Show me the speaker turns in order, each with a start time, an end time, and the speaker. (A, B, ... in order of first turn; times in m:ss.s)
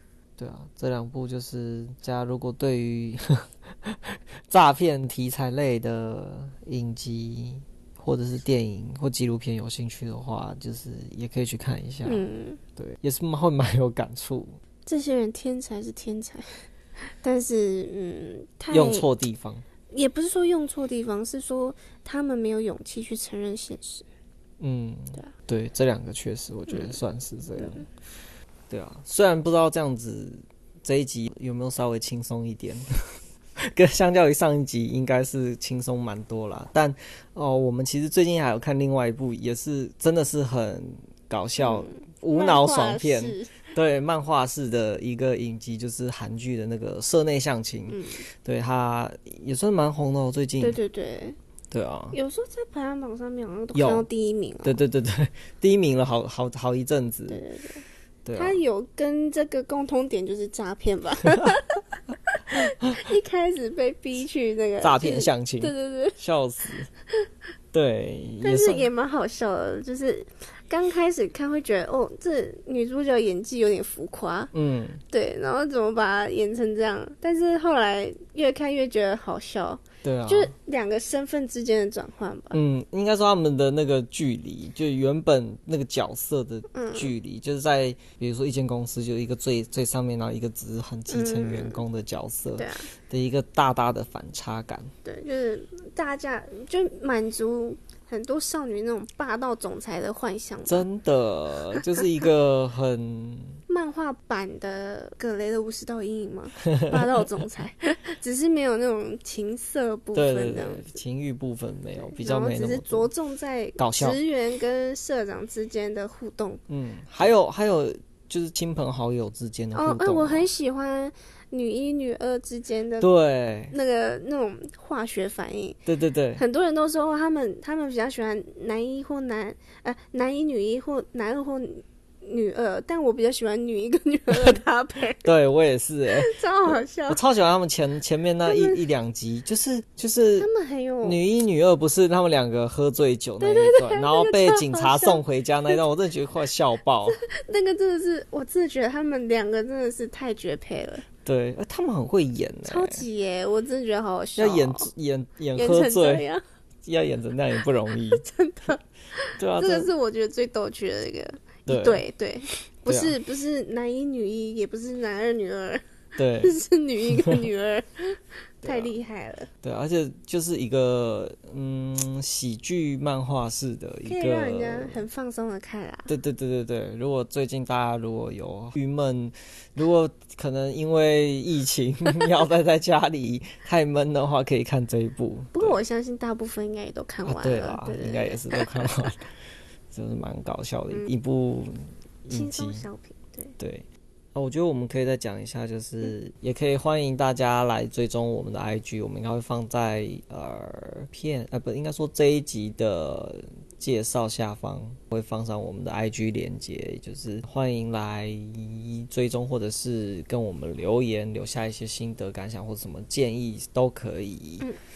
0:00.4-0:12.2 A
0:12.1-0:12.6 B
0:12.8-0:14.6 A
0:14.9-0:19.1 B
0:18.7-0:19.6 A
0:19.9-0:24.1 B
0:24.6-0:27.9 A
0:26.7-0:27.0 B
0:27.6-0:27.8 B
0:28.7-0:50.8 A
0:41.6-0:43.7 B
0:47.9-0:48.2 B
0:50.6-0:51.4 B
0:51.7-0:52.2 A
0:52.1-0:54.8 B
0:53.8-0:54.1 A
0:54.6-0:57.4 A
0:57.3-0:57.8 B
0:58.2-0:58.6 A
0:58.4-1:06.2 B
1:02.5-1:03.0 A
1:04.8-1:06.9 A
1:07.7-1:08.9 A
1:08.4-1:14.5 B
1:14.5-1:15.0 A
1:15.1-1:22.6 B
1:20.0-1:20.5 A
1:22.5-1:34.9 A
1:26.7-1:27.1 B
1:31.1-1:31.8 B
1:32.6-1:32.9 B
1:35.0-1:40.9 B
1:40.7-1:43.6 A
1:41.7-1:42.1 B
1:43.7-1:51.0 B
1:46.7-1:47.0 A
1:50.1-1:53.1 A
1:52.2-1:56.6 B
1:53.8-1:54.2 A
1:56.7-2:00.5 A
1:59.7-2:03.1 B
2:03.0-2:03.8 A
2:03.7-2:05.8 B
2:05.9-2:06.4 A
2:06.4-2:15.3 B
2:15.2-2:20.5 A
2:16.1-2:17.2 B
2:18.5-2:18.8 B
2:20.4-2:21.2 B
2:21.0-2:27.2 A
2:23.4-2:25.8 B
2:27.1-2:31.0 B
2:31.2-2:33.0 A
2:32.6-2:34.9 B
2:34.4-2:36.3 A
2:35.6-2:36.4 B
2:36.8-2:38.3 A
2:38.1-2:45.8 B
2:39.4-2:39.9 A
2:41.7-2:42.0 A
2:42.9-2:43.2 A
2:46.2-2:47.4 A
2:46.4-2:49.5 B
2:48.6-2:48.9 A
2:49.6-2:55.1 A
2:54.0-2:56.1 B
2:56.1-3:05.8 A
3:05.5-3:08.9 B
3:07.3-3:09.3 A
3:09.9-3:12.9 A
3:10.9-3:11.2 B
3:12.3-3:13.6 B
3:13.6-3:34.7 A